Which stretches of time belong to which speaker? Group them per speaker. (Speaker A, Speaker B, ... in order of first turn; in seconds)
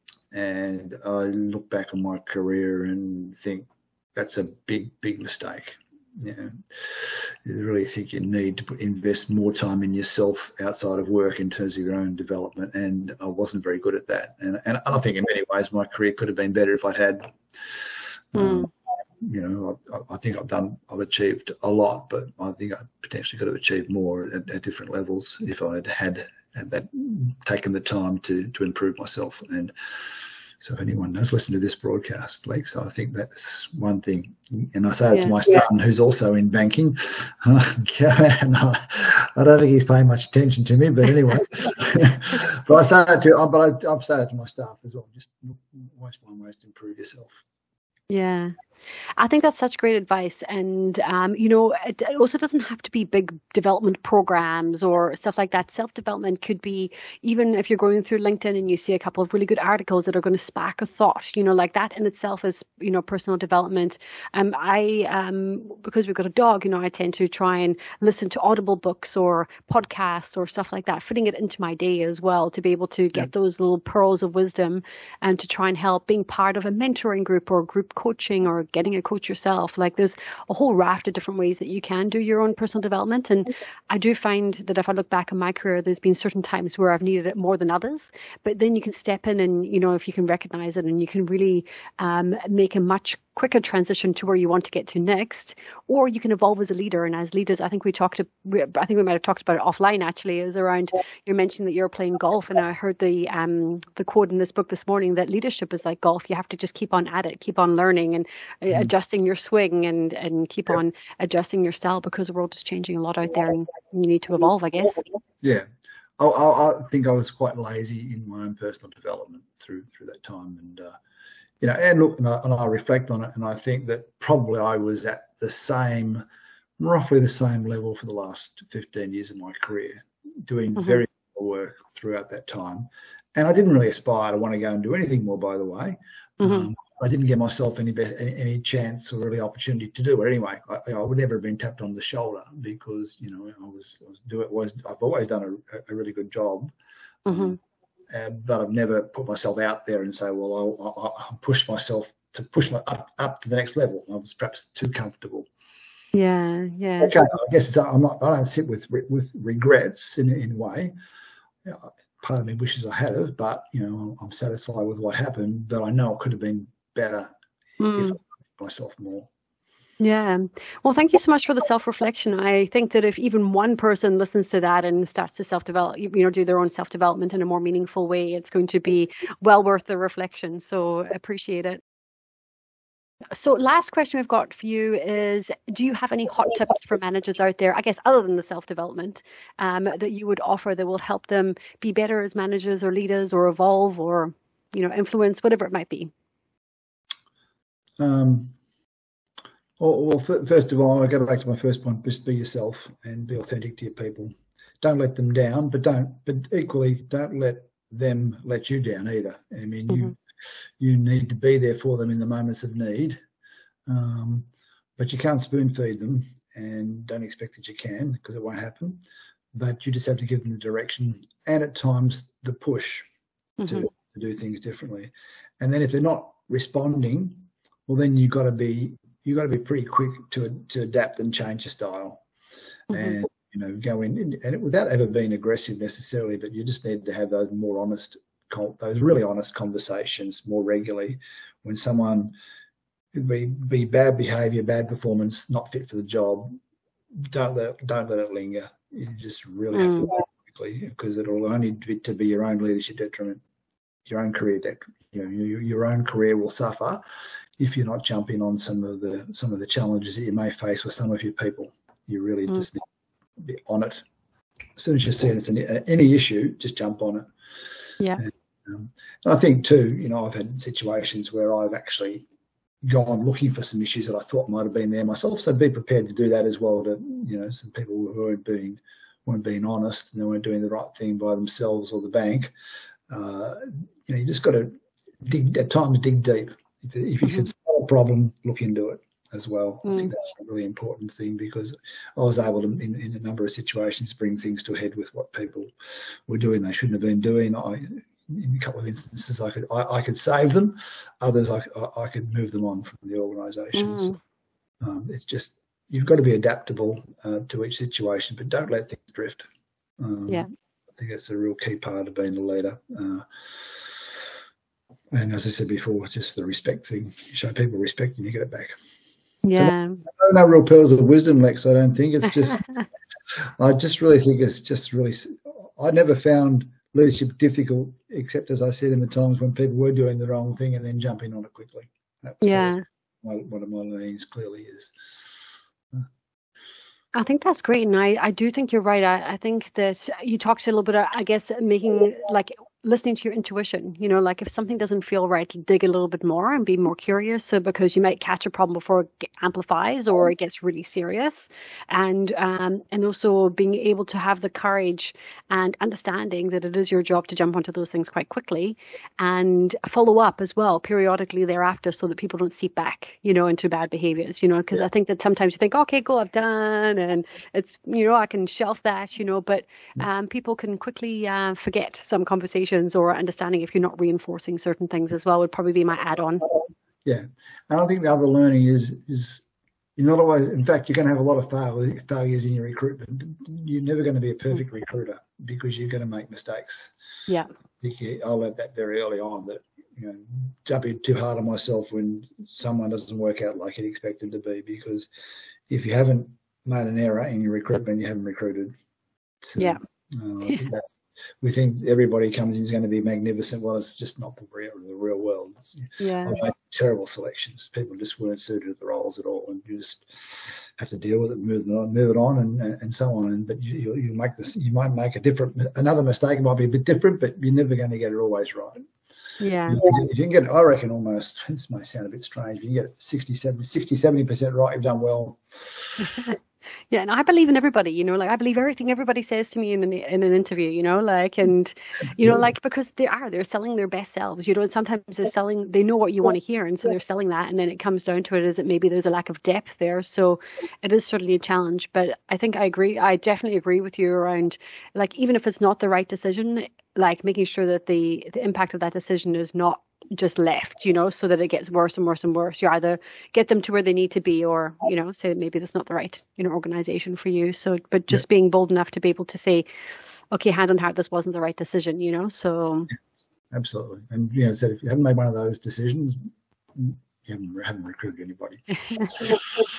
Speaker A: 0.3-17.4, 18.3-29.7, 30.6-47.4, 115.4-115.7, 116.2-121.0, 121.6-126.2, 126.8-146.7, 147.3-147.6, 148.1-155.5, 157.0-160.9, 161.7-167.3, 167.9-169.3, 198.0-198.6, 199.8-210.2, 210.8-213.2, 213.9-219.0, 219.5-223.1, 223.6-232.2, 232.9-242.3, 243.1-246.5, 247.2-253.4, 254.1-257.0, 257.6-262.8, 263.4-264.0, 264.8-267.3, 268.2-272.3, 272.8-282.5, 283.1-295.7, 296.3-304.1, 304.8-309.4, 310.0-313.3, 315.1-318.8, 319.5-322.6, 323.6-334.9, 377.1-379.4, 380.0-386.9, 387.8-395.1, 395.7-398.7, 399.4-418.8, 419.7-426.0, 463.5-469.4
Speaker B: 18.4-18.7, 35.1-35.4, 48.1-48.5, 49.2-115.1, 136.4-136.7, 147.3-147.6, 156.1-157.2, 167.8-168.2, 170.0-181.8, 183.3-196.1, 223.6-223.9, 232.9-233.2, 249.7-250.2, 289.9-290.1, 303.8-304.2, 319.4-320.0, 332.4-332.8, 337.1-376.4, 406.0-406.4, 419.4-419.9, 426.9-459.7, 460.3-462.9, 468.9-469.4